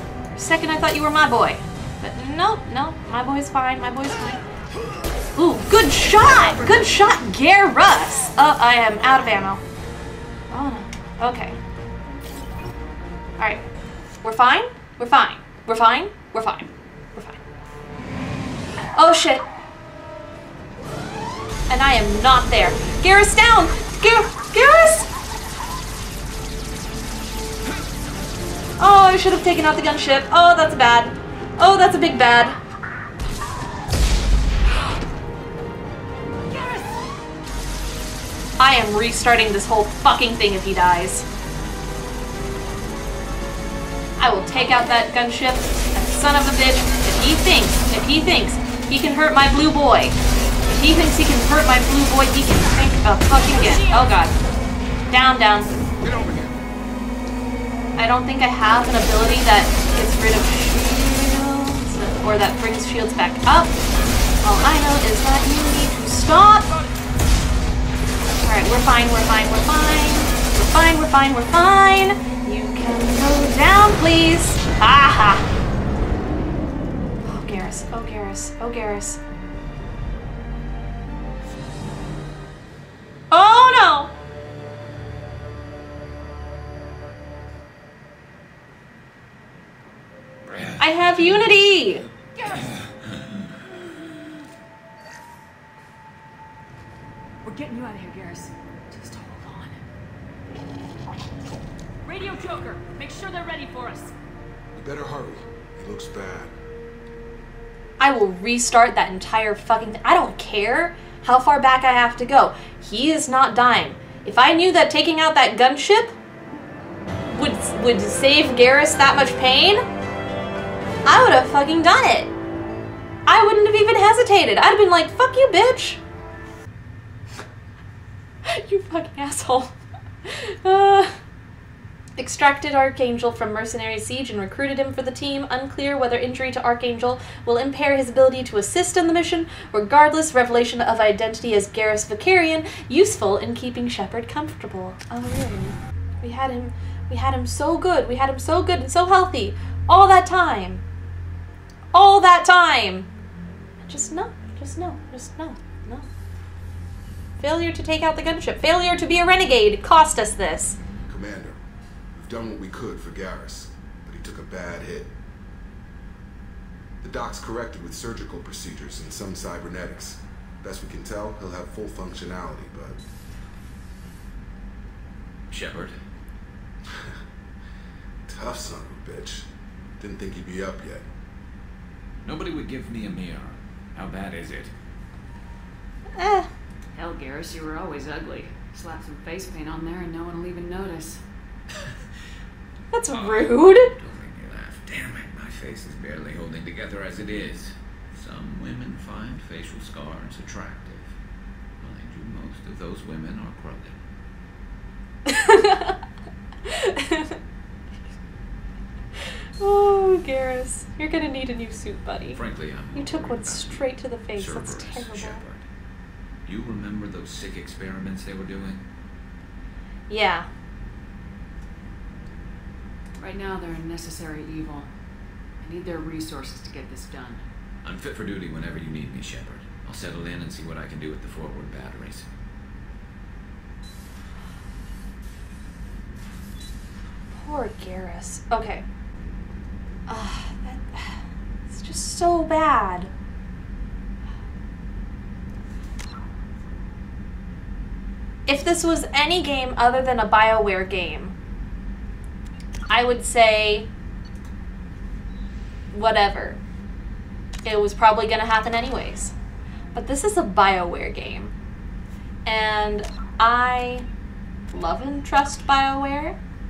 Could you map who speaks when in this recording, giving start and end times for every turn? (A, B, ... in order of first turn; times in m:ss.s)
0:00.3-0:04.4 A
0:05.4-0:09.6 A
0:10.5-0:11.6 A
0:13.4-0:13.6 A
0:14.2-0:17.4 A
0:18.9-0:19.4 A
0:21.7-0:25.1 A
0:28.8-0:32.6 A
0:38.6-0:41.3 A
0:44.2-0:54.4 A
0:55.1-0:55.7 A
0:58.0-1:03.7 A
1:04.4-1:06.7 A
1:08.4-1:15.5 A
1:17.2-1:19.2 A
1:23.3-1:24.1 A
1:30.5-1:30.8 B
1:30.8-1:32.1 A
1:32.4-1:32.7 C
1:37.4-1:39.8 C
1:42.1-1:44.1 C
1:44.8-1:46.5 D
1:48.0-1:56.1 A
1:57.3-1:59.8 A
2:01.0-2:02.3 A
2:03.3-2:06.0 A
2:08.5-2:09.7 A
2:10.2-2:11.1 A
2:12.2-2:30.8 A
2:31.9-2:33.1 A
2:33.8-2:36.0 A
2:37.4-2:40.8 A
2:41.1-2:41.6 D
2:42.1-2:45.1 D
2:47.0-2:53.0 D
2:55.5-2:56.0 B
2:58.3-2:59.5 D
3:00.0-3:01.1 D
3:02.2-3:04.7 B
3:06.2-3:06.5 A
3:06.9-3:11.2 C
3:12.9-3:13.9 A
3:13.1-3:21.1 B
3:21.8-3:24.0 B
3:25.3-3:26.0 A
3:26.7-3:27.4 A
3:29.6-3:32.4 A
3:32.3-3:35.7 B
3:32.9-3:35.4 A
3:36.5-3:38.8 B
3:40.1-3:40.5 A
3:43.2-3:44.9 C
3:45.6-3:47.5 C
3:47.8-3:52.3 B
3:57.3-3:58.8 A
4:00.1-4:03.1 A
4:08.5-4:11.4 A
4:12.9-4:13.9 A
4:15.9-4:16.6 A
4:17.6-4:19.4 A
4:19.9-4:21.5 A
4:22.4-4:24.1 A
4:24.7-4:26.4 A